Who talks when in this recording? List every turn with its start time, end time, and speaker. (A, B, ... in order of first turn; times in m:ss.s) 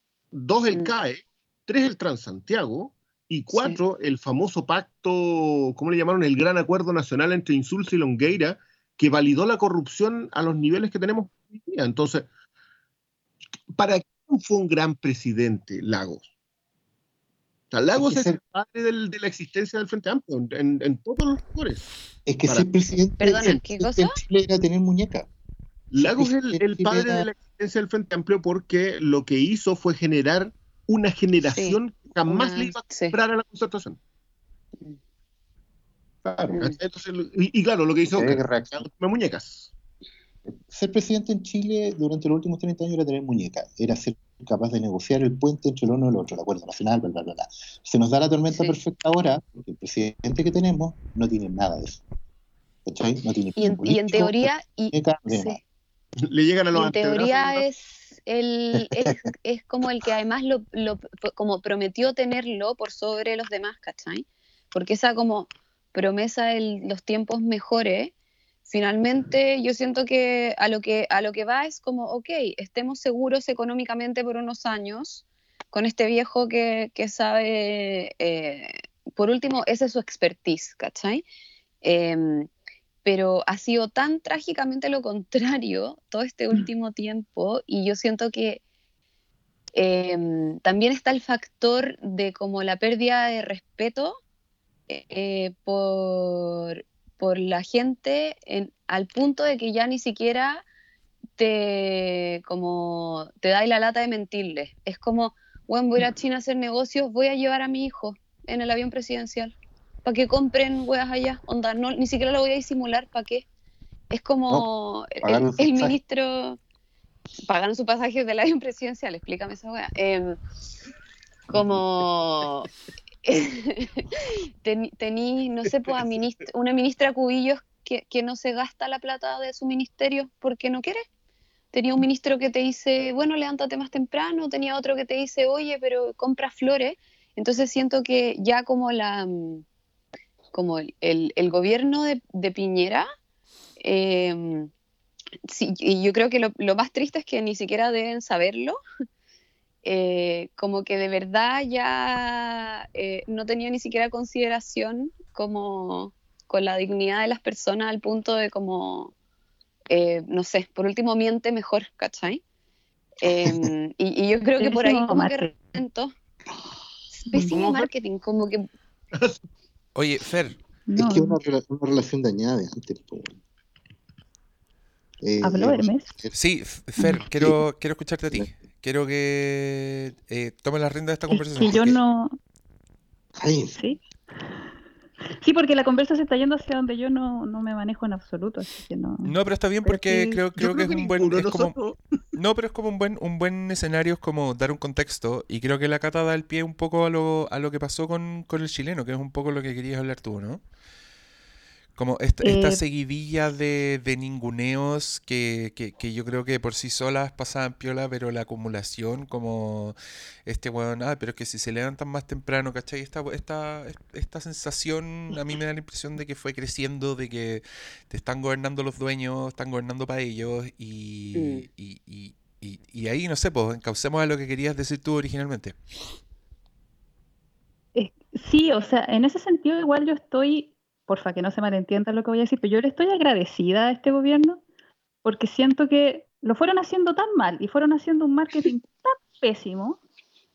0:00.3-0:12.3 A
0:03.5-0:03.8 B
0:13.7-0:16.3 A
0:17.7-0:21.9 A
0:18.0-0:18.4 C
0:22.2-0:25.3 C
0:23.2-0:24.2 B
0:25.9-0:34.0 A
0:26.0-0:27.2 C
0:31.4-0:33.2 B
0:36.2-0:36.6 C
0:36.6-0:39.7 A
0:38.1-0:38.8 C
0:40.7-0:52.0 C
0:48.5-0:48.8 B
0:52.8-0:55.6 C
0:53.6-0:55.6 B
0:56.2-0:57.6 A
0:56.7-1:08.1 B
1:08.7-1:21.2 B
1:21.8-1:22.5 B
1:23.0-1:28.6 B
1:29.8-1:34.2 B
1:34.9-1:40.6 B
1:41.4-1:53.4 B
1:54.1-1:56.6 B
1:55.2-1:56.0 C
1:57.5-2:00.4 B
2:01.5-2:02.7 B
2:03.2-2:11.0 B
2:11.7-2:19.6 B
2:20.5-2:23.0 B
2:23.8-2:24.7 B
2:25.4-2:28.8 B
2:29.8-2:39.1 B
2:39.9-2:42.4 B
2:43.2-2:46.1 B
2:44.6-2:45.5 D
2:47.1-2:48.6 B
2:47.5-2:47.9 A
2:49.1-2:49.4 A
2:49.9-2:50.6 E
2:50.9-2:51.4 D
2:51.0-2:53.4 C
2:55.2-2:56.4 C
2:55.4-2:56.1 D
2:56.3-3:02.0 E
2:57.2-2:57.6 C
3:01.3-3:02.4 D
3:03.4-3:03.8 C
3:05.4-3:10.4 D
3:09.2-3:11.8 E
3:10.6-3:12.0 A
3:12.4-3:20.6 E
3:22.0-3:45.8 E
3:22.4-3:22.8 D
3:41.3-3:41.7 B
3:47.9-3:54.6 D
3:55.2-4:00.0 D